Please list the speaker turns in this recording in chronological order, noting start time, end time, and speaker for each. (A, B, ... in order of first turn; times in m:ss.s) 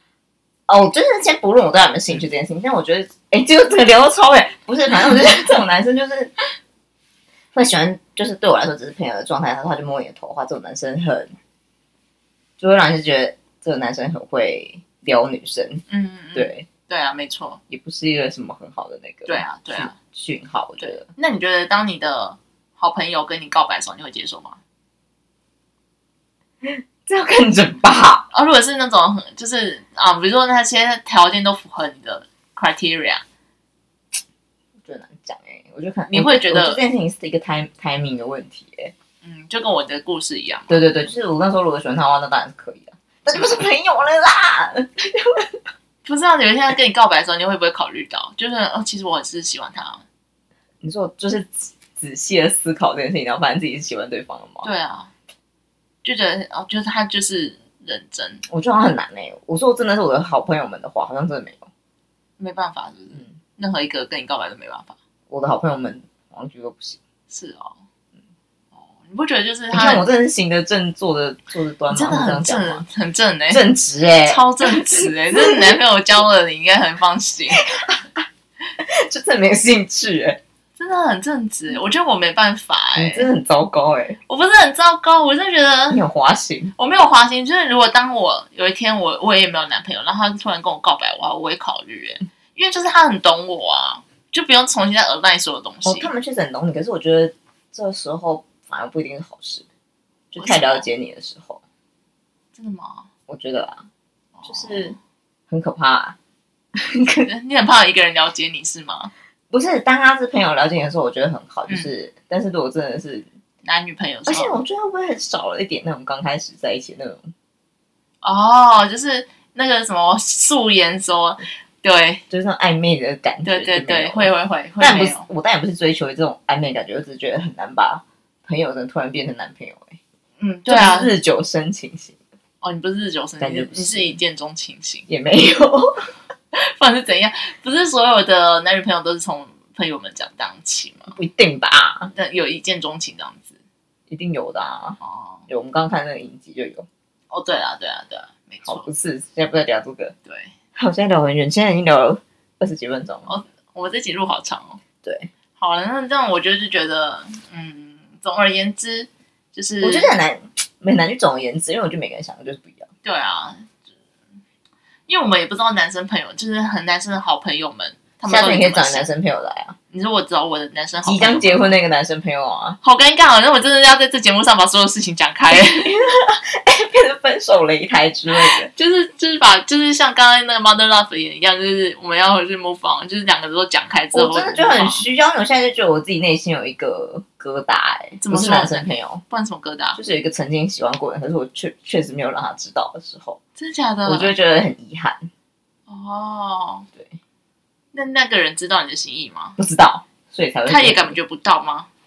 0:00.7-0:06.3 A
0:07.5-0:11.3 A
0:12.6-0:15.8 A
0:15.9-0:17.6 B
0:16.3-0:16.6 A
0:17.7-0:21.1 A
0:19.3-0:19.9 B
0:20.8-0:24.6 B
0:26.6-0:28.3 A
0:28.3-0:33.2 B
0:34.8-0:38.9 A
0:36.1-0:36.8 B
0:39.2-0:40.8 B
0:40.7-0:45.5 A
0:46.0-0:50.0 B
0:50.8-0:54.7 A
0:54.6-0:55.1 B
0:56.0-0:58.4 B
0:58.5-1:01.7 A
1:02.4-1:04.9 B
1:05.3-1:07.0 A
1:07.3-1:07.8 B
1:08.7-1:10.0 B
1:09.7-1:12.8 A
1:11.9-1:13.6 B
1:13.5-1:15.8 A
1:14.3-1:17.6 B
1:17.6-1:18.2 A
1:18.8-1:20.4 A
1:20.8-1:23.3 B
1:22.9-1:24.2 A
1:24.3-1:26.0 B
1:25.9-1:26.7 A
1:26.8-1:36.1 B
1:35.8-1:39.6 A
1:40.3-1:41.6 A
1:40.4-1:40.8 B
1:42.5-1:43.1 B
1:43.3-1:43.8 A
1:44.4-1:45.0 B
1:44.4-1:44.9 A
1:45.5-1:46.2 A
1:46.7-1:47.3 A
1:47.2-1:49.1 B
1:49.5-1:53.2 A
1:53.6-1:54.6 B
1:54.3-1:57.3 A
1:58.2-2:02.2 B
2:02.3-2:10.0 A
2:03.4-2:05.2 B
2:10.4-2:11.1 B
2:10.7-2:12.2 A
2:12.6-2:15.0 B
2:13.4-2:14.2 A
2:15.1-2:16.1 A
2:16.5-2:21.1 B
2:21.1-2:22.1 A
2:22.1-2:23.6 B
2:24.1-2:26.9 A
2:25.0-2:25.4 B
2:27.3-2:28.9 B
2:28.6-2:30.1 A
2:30.2-2:30.5 B
2:30.8-2:33.3 A
2:33.3-2:34.8 B
2:35.0-2:35.3 A
2:35.6-2:40.2 B
2:39.8-2:42.9 A
2:43.0-2:43.6 B
2:45.1-2:49.0 B
2:48.2-2:49.8 A
2:49.9-2:51.8 B
2:51.0-2:52.8 A
2:52.8-2:55.9 B
2:55.5-2:58.7 A
2:58.6-3:05.0 B
3:04.1-3:09.2 A
3:08.2-3:10.0 B
3:10.0-3:13.4 A
3:13.6-3:14.3 B
3:14.0-3:15.3 A
3:15.9-3:16.9 B
3:17.9-3:19.6 B
3:19.6-3:21.2 A
3:20.6-3:21.9 B